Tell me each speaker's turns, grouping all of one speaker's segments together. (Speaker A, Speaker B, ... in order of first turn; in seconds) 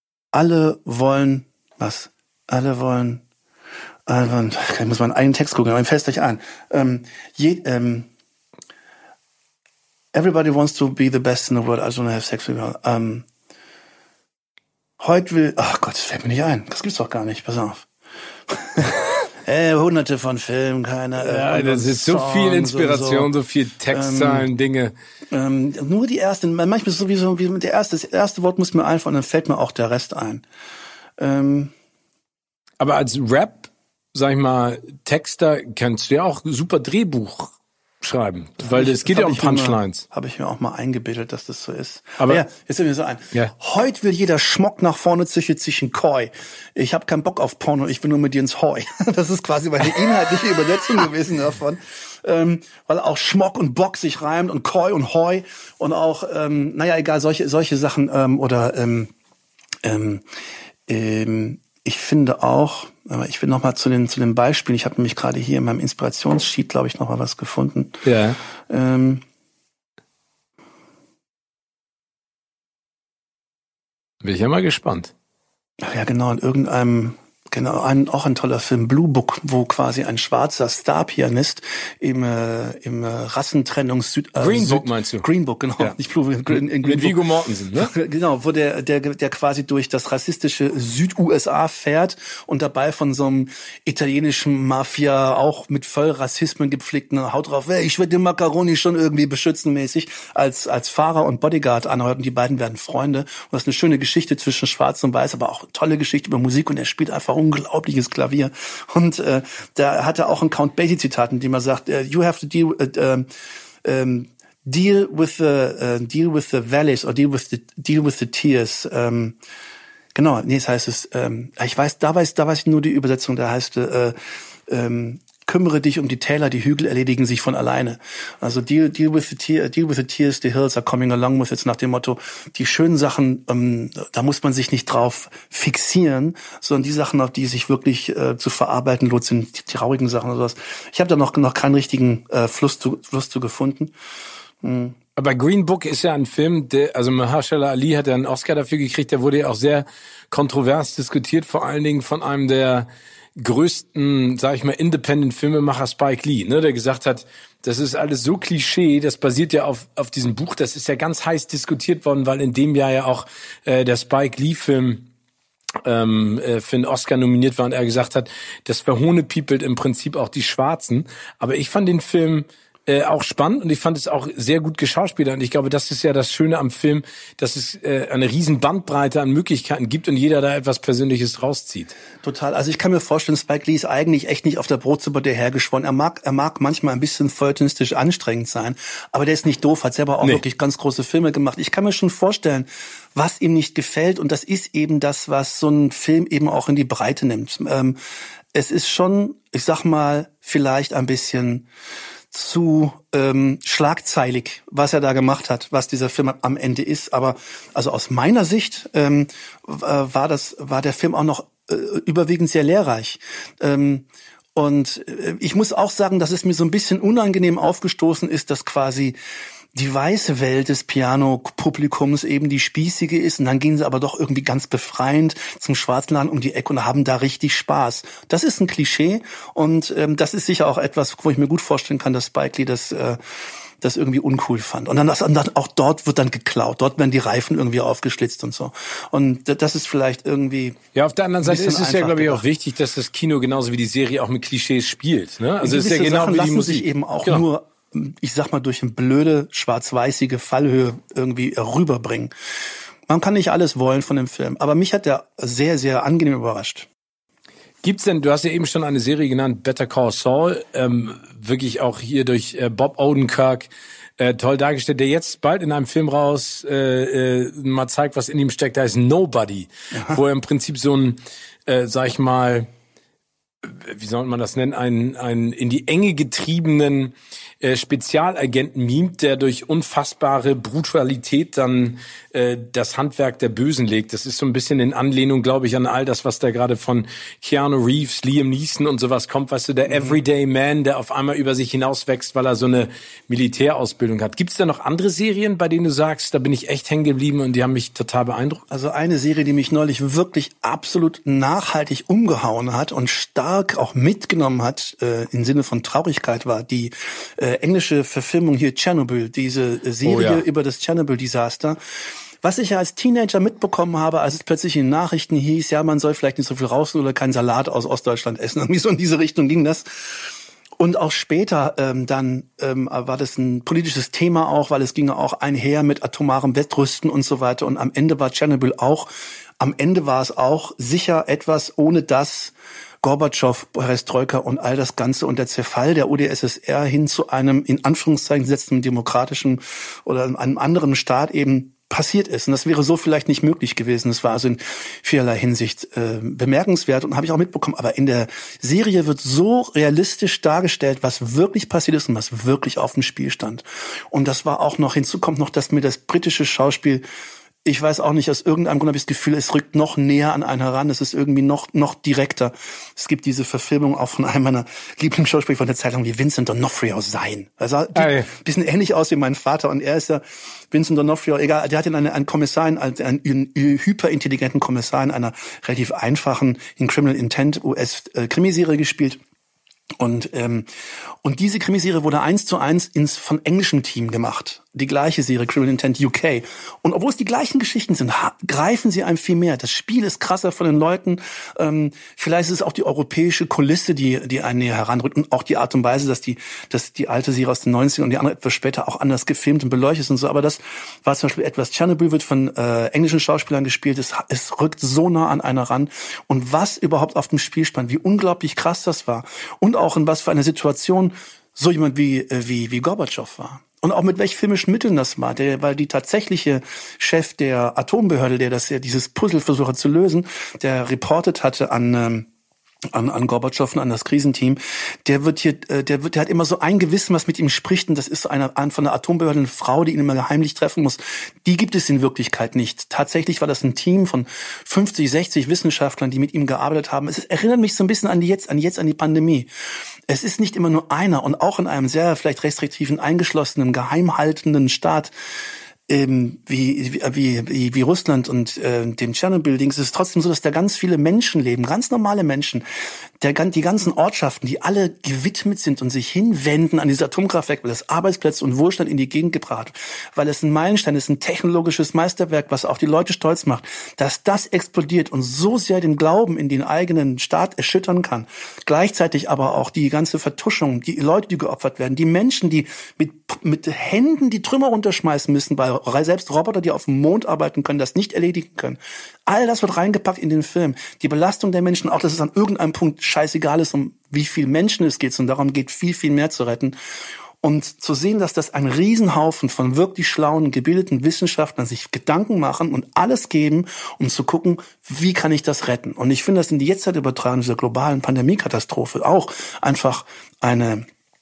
Speaker A: 0.3-3.2, 4.1-8.1, 10.1-13.3, 15.0-17.9, 18.5-23.3, 23.9-24.5, 25.3-30.4, 31.2-31.7, 38.6-59.1, 59.8-60.2, 60.9-68.0, 68.7-69.2, 75.8-87.2, 87.8-113.3, 113.8-119.4, 120.2-124.2, 124.7-143.9, 144.6-145.0, 182.2-198.0, 198.5-201.7, 202.3-219.2, 219.7-240.8, 241.4-242.4, 245.6-252.3, 253.1-256.9, 269.9-270.2, 289.9-290.2, 298.7-311.8, 312.4-357.0, 357.6-379.2, 380.0-380.7, 381.2-422.3, 422.9-439.5, 440.1-445.1, 445.9-452.6, 453.2-486.8, 487.4-500.9
Speaker B: 21.2-24.9, 32.8-40.0, 42.2-42.5, 68.0-68.4, 74.2-75.1, 84.4-85.3, 86.5-87.9, 145.2-165.1, 165.8-181.9, 240.9-247.4, 257.8-272.7, 273.6-298.6, 310.0-310.4, 368.0-368.3